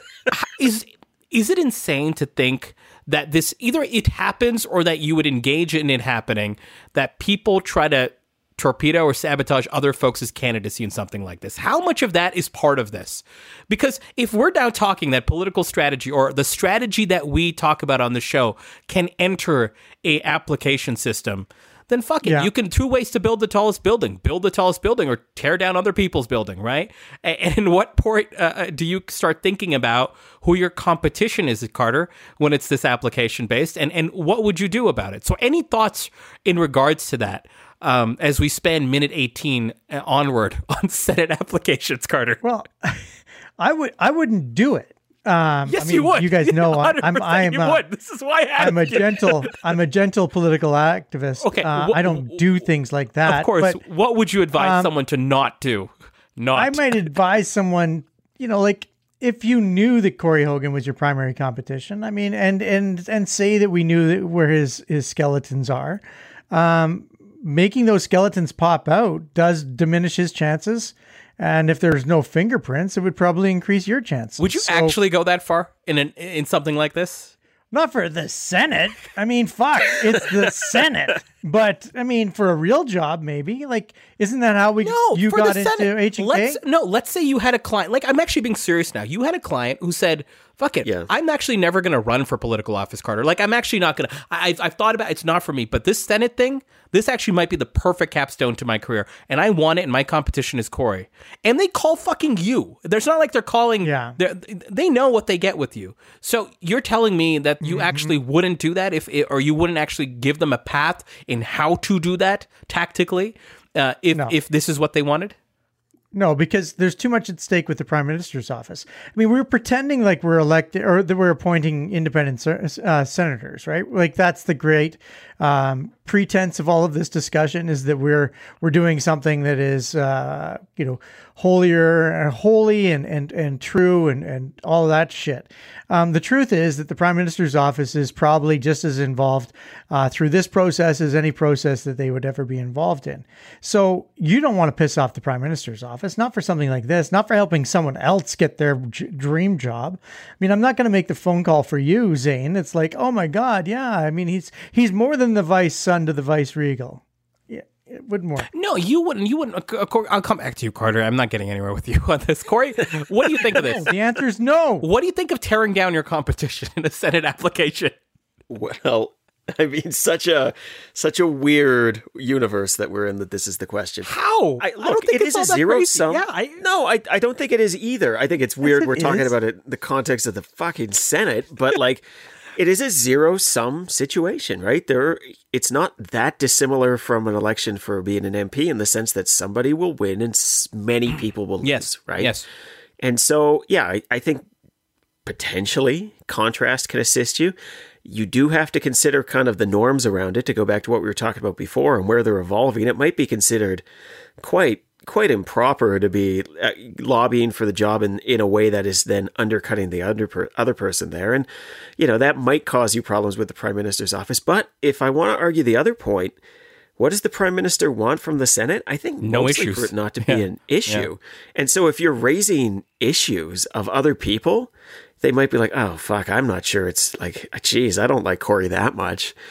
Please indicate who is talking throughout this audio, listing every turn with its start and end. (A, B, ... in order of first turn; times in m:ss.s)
0:00.3-0:42.4 A
0:22.2-0:22.5 B
0:42.4-0:43.1 B
0:43.6-0:47.8 B
0:45.7-0:49.6 A
0:48.6-0:53.8 B
0:51.4-0:52.5 A
0:53.2-0:56.9 A
0:54.6-0:54.9 B
0:56.5-1:15.0 B
1:14.4-1:17.3 A
1:17.7-1:26.6 B
1:24.8-1:55.4 A
1:30.8-1:31.1 C
1:43.8-1:44.2 B
1:47.6-1:48.1 B
1:56.1-2:38.5 B
2:38.5-2:43.9 A
2:43.5-2:44.9 B
2:44.8-2:48.0 A
2:48.5-3:02.0 C
2:54.0-2:56.6 A
2:58.6-2:59.3 B
3:02.6-3:12.3 C
3:11.6-3:12.5 A
3:13.0-3:14.5 C
3:15.3-3:23.8 C
3:24.4-3:36.4 C
3:37.0-3:49.4 C
3:39.2-3:41.1 A